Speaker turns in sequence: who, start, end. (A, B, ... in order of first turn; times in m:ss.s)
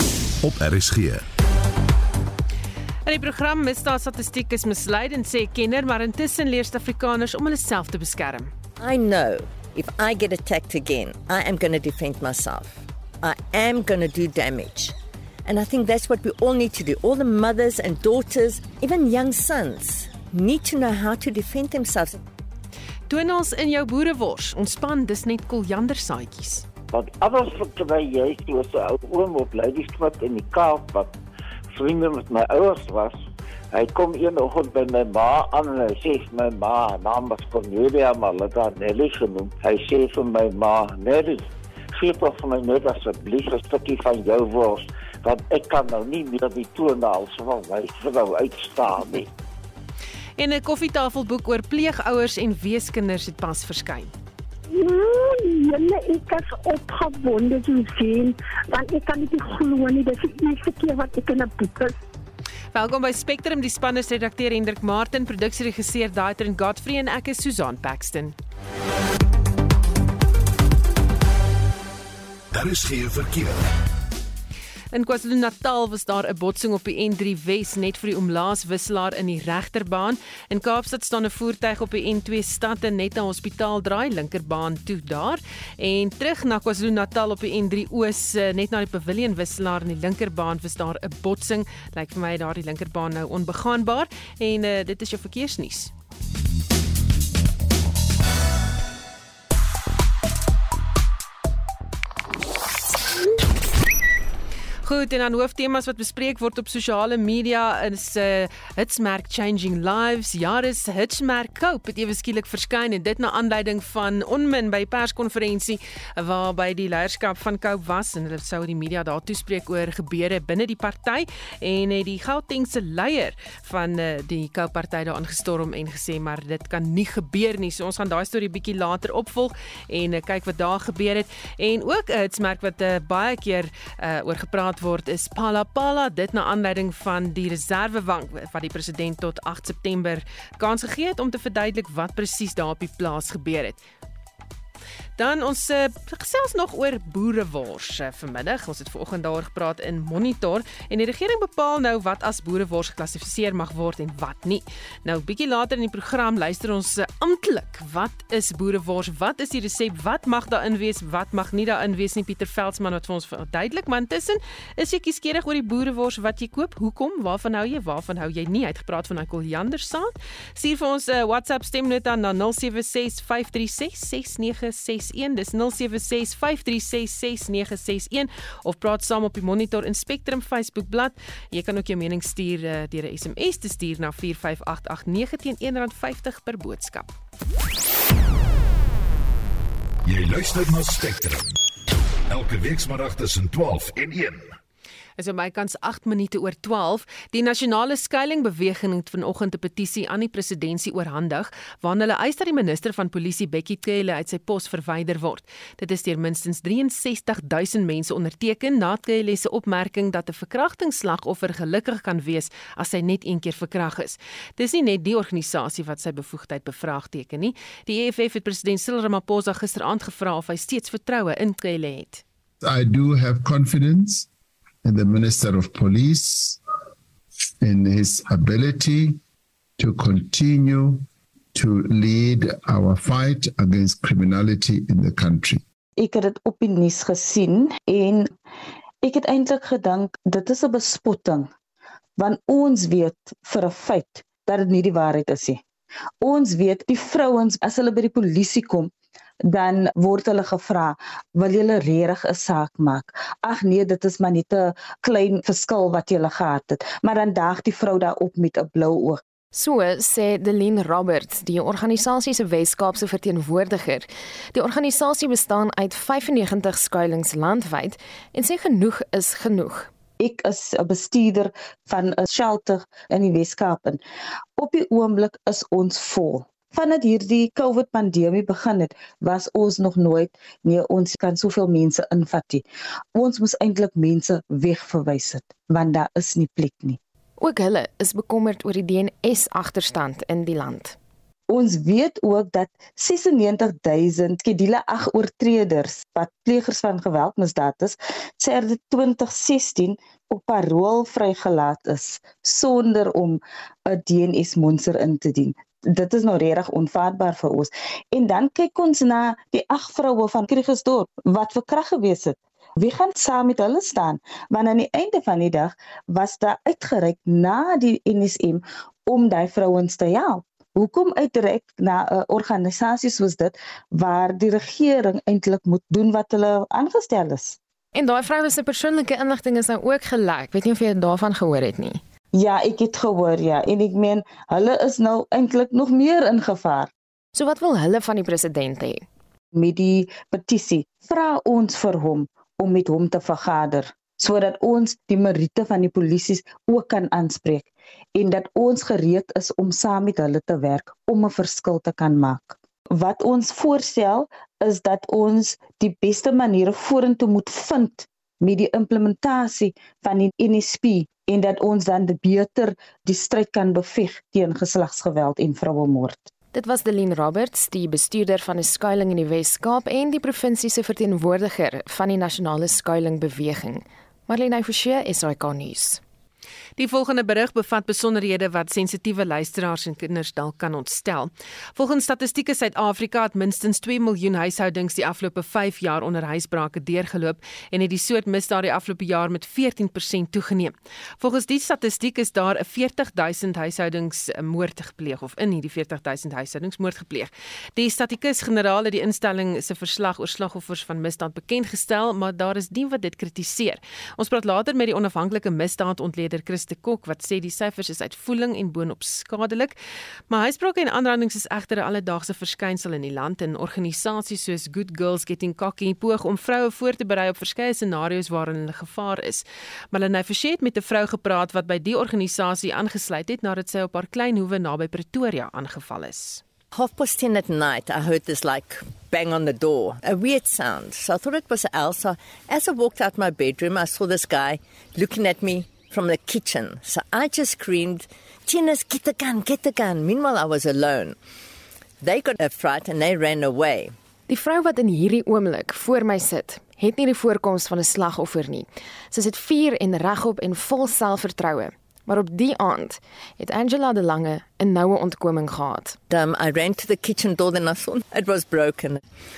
0:00.4-0:01.2 A
0:03.0-0:08.5 B
0:08.8-0:14.9 C
0:15.5-0:22.2 C
0:23.1-0:26.7 B
0:26.9-0:31.1 D
0:31.7-0:49.3 D
0:50.4-0:54.1 B
0:54.7-1:02.0 E
1:02.7-1:08.4 B
1:12.5-1:13.7 A
1:14.9-1:35.9 B
1:44.8-2:23.8 B
2:25.2-3:07.1 B
3:10.0-3:11.5 A
3:12.3-3:14.6 A
3:15.2-3:42.2 B
3:42.6-3:44.3 F
3:44.8-3:46.6 F
3:47.6-3:49.2 F
3:49.8-3:55.6 F
3:56.0-3:58.4 G
3:59.0-4:01.5 G
4:02.2-4:05.6 G
4:06.2-4:08.9 G
4:09.4-4:19.2 G
4:19.5-4:29.9 H
4:30.2-4:34.0 G
4:34.6-4:47.0 G
4:47.4-4:51.0 H
4:51.5-5:27.6 G
5:27.9-5:32.0 H
5:32.3-5:36.9 G
5:37.3-5:39.1 H
5:39.5-6:06.3 G
6:06.5-6:16.0 H
6:16.8-6:49.8 B
6:50.3-7:06.4 B
7:06.7-7:21.2 C
7:22.0-7:23.9 C
7:24.3-7:36.0 H
7:36.1-7:39.0 C